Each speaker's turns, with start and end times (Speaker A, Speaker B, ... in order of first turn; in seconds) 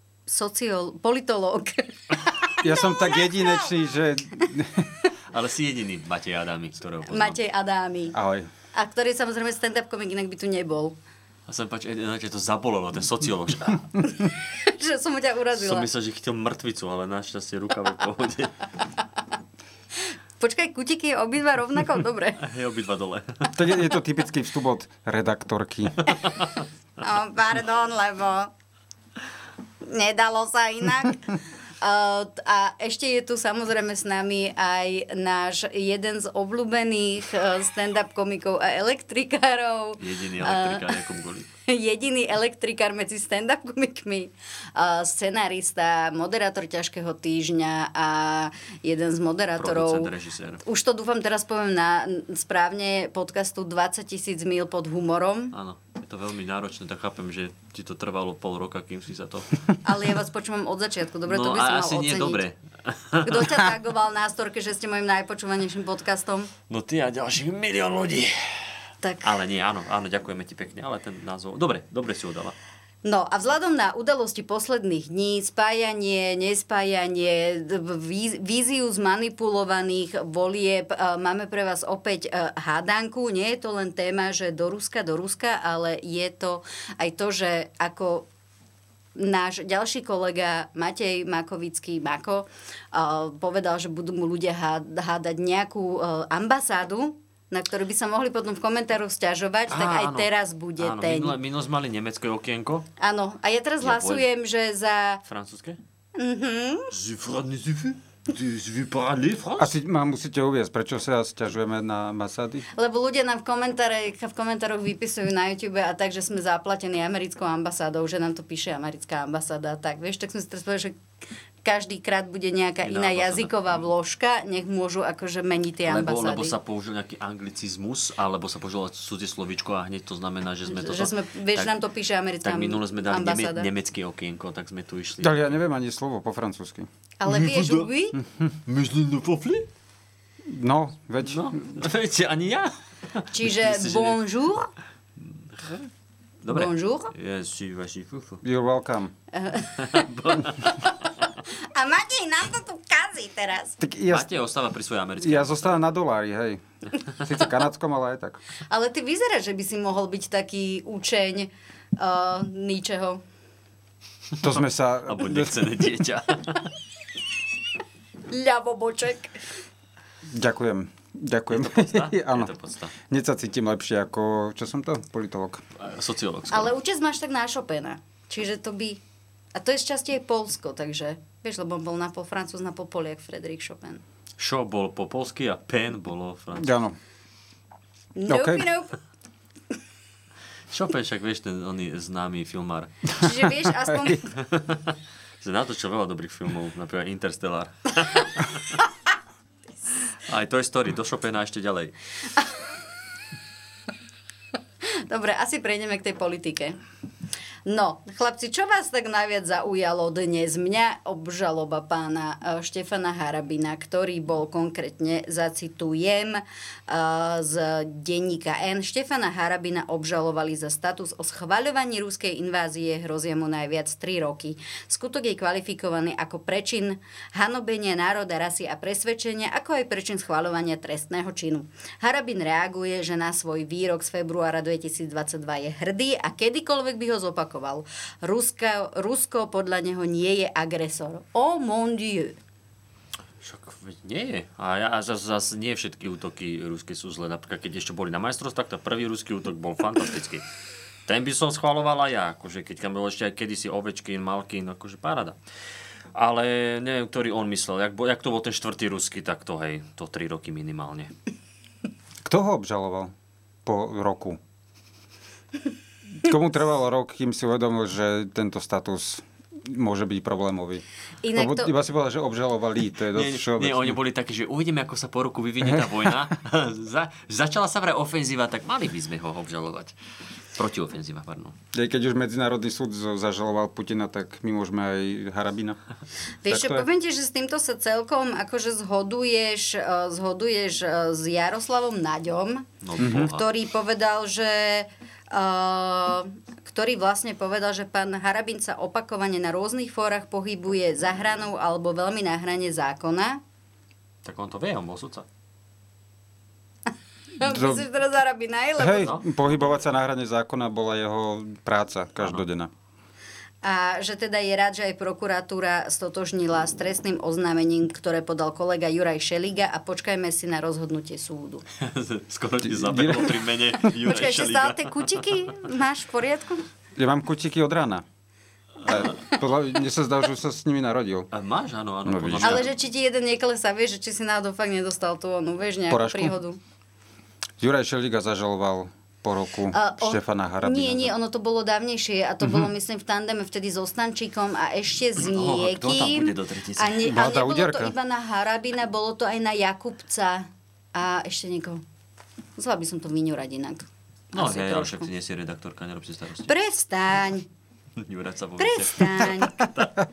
Speaker A: 0.3-3.5, 7.1-8.2, 8.7-11.0, 14.6-15.9, 20.4-22.4, 27.0-28.5, 29.9-40.8, 41.7-50.1, 50.6-55.5, 59.8-62.4, 63.2-66.5, 73.0-88.3, 89.2-101.3, 103.0-105.2, 106.2-106.9, 112.7-121.0, 121.6-126.5, 130.7-133.7, 137.2-138.2, 143.3-144.7, 146.5-147.1, 149.3-150.0, 151.7-153.8, 158.7-163.2, 168.3-169.3, 176.5-179.0, 179.5-184.0, 188.2-188.9, 193.2-194.2, 204.9-206.8, 207.7-242.4, 271.2-271.7, 286.4-303.4, 307.4-309.1, 313.6-321.6, 324.0-326.6, 332.4-336.6, 339.7-351.8, 352.6-355.1, 356.5-357.4, 358.6-359.7
Speaker B: 2.6-4.9, 8.1-8.5, 23.5-26.1, 109.6-112.6, 135.2-136.9, 140.5-141.6, 148.4-149.1, 153.8-154.3, 155.2-156.6, 157.2-158.4, 164.4-165.7, 170.3-172.5, 173.1-175.6, 186.6-186.9, 188.3-188.7, 193.2-194.2, 262.2-263.1, 263.6-264.4, 266.2-270.8, 271.3-274.0, 281.7-285.8, 286.5-286.9, 293.0-293.3, 307.4-307.8, 308.8-312.7, 322.6-323.4, 326.9-328.0, 328.9-331.3, 332.1-332.6, 335.9-336.4, 337.6-341.1, 347.0-347.9
Speaker C: 5.3-7.4, 11.5-13.9, 15.5-18.5, 22.4-23.5, 40.0-41.5, 49.6-50.6, 55.5-59.5, 61.3-63.6, 66.7-68.3, 69.2-72.5, 99.7-102.9, 103.8-104.2, 105.2-105.8, 106.9-109.7, 122.8-123.5, 125.9-131.7, 132.4-135.4, 137.3-137.9, 138.7-139.7, 141.2-144.2, 145.6-145.8, 146.4-148.4, 149.8-151.1, 154.1-155.8, 164.4-166.7, 171.5-172.9, 175.8-176.7, 184.4-186.7, 190.7-192.9, 194.3-198.8, 200.3-201.9, 243.4-250.4, 251.1-255.4, 256.1-261.1, 273.1-279.9, 280.5-281.5, 292.8-293.4, 304.2-305.2, 321.8-325.1, 331.3-332.7, 345.2-347.0, 354.3-356.5, 358.0-359.9